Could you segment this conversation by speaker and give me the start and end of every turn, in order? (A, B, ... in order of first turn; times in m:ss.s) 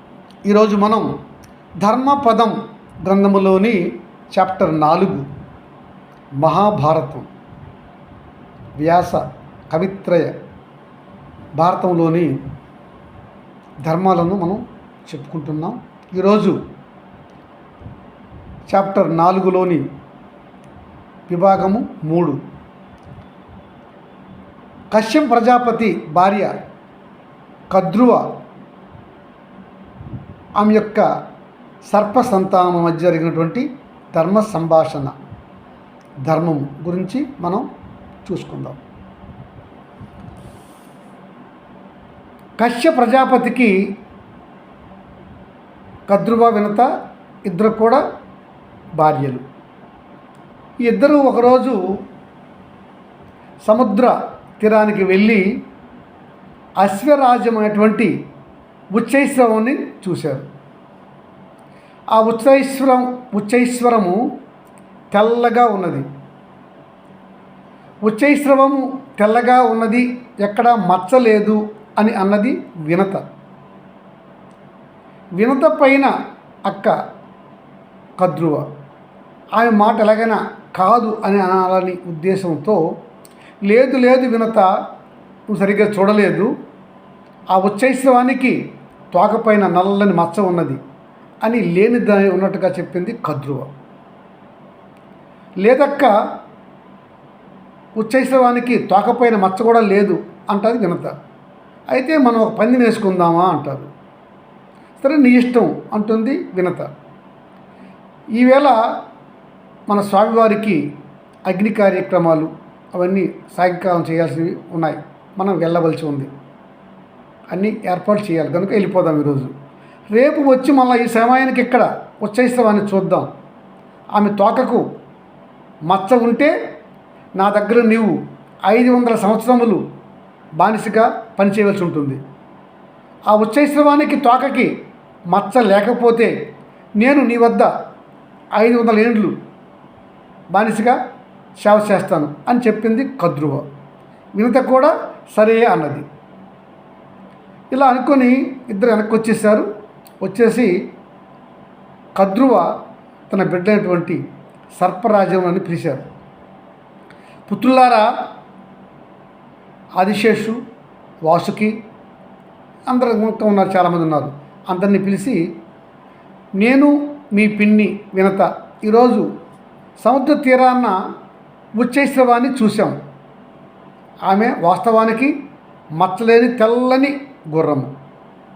0:00.4-0:01.1 A
0:01.8-0:05.2 A
0:06.4-0:07.3 A
0:08.8-0:10.3 A
0:11.6-0:12.3 A
0:13.8-0:16.6 A
0:18.7-0:19.8 A
0:21.3-0:22.4 A
0:24.9-0:26.5 A
0:27.7-0:28.3 A
0:30.6-0:31.0 A
0:31.8-0:35.1 A
0:36.2-0:37.6 A
0:38.2-0:38.8 A
0:42.6-0:43.8 A
0:46.1-0:46.9 A
0:47.4-0:48.0 A
0:49.0-0:49.4 A
0:50.8-0:51.8 A
0:53.6-0:55.4 A
0:56.8-0:58.1 A
0:58.9-1:00.4 A
1:02.1-1:04.2 A
1:05.1-1:06.1 A
1:08.0-1:13.2 A
1:15.4-1:16.1 A
1:16.6-1:17.0 A
1:18.2-1:18.7 A
1:19.6-1:22.8 A
1:23.6-1:24.7 A
1:25.5-1:26.5 A
1:27.5-1:28.6 A
1:29.1-1:30.8 A
1:31.4-1:33.7 A
1:35.6-1:36.1 A
1:38.0-1:41.1 A
1:41.9-1:43.9 A
1:45.0-1:46.9 A
1:48.4-1:48.8 A
1:49.9-1:50.8 A
1:51.5-1:56.3 A
1:57.5-1:59.5 A
2:00.1-2:03.3 A
2:04.1-2:04.8 A
2:05.8-2:06.5 A
2:07.4-2:09.8 A
2:10.6-2:12.2 A
2:13.3-2:14.7 A
2:15.3-2:16.3 A
2:17.0-2:17.7 A
2:18.6-2:19.3 A
2:20.5-2:21.0 A
2:21.6-2:23.6 A
2:24.3-2:26.0 A
2:27.7-2:29.7 A
2:30.2-2:30.7 A
2:32.2-2:32.7 A
2:33.3-2:34.2 A
2:34.7-2:36.0 A
2:37.5-2:38.1 A
2:40.0-2:40.6 A
2:41.2-2:41.7 A
2:42.9-2:45.4 A
2:46.6-2:49.3 A
2:50.0-2:51.0 A
2:51.8-2:53.0 A
2:54.3-2:55.3 A
2:56.0-2:57.9 A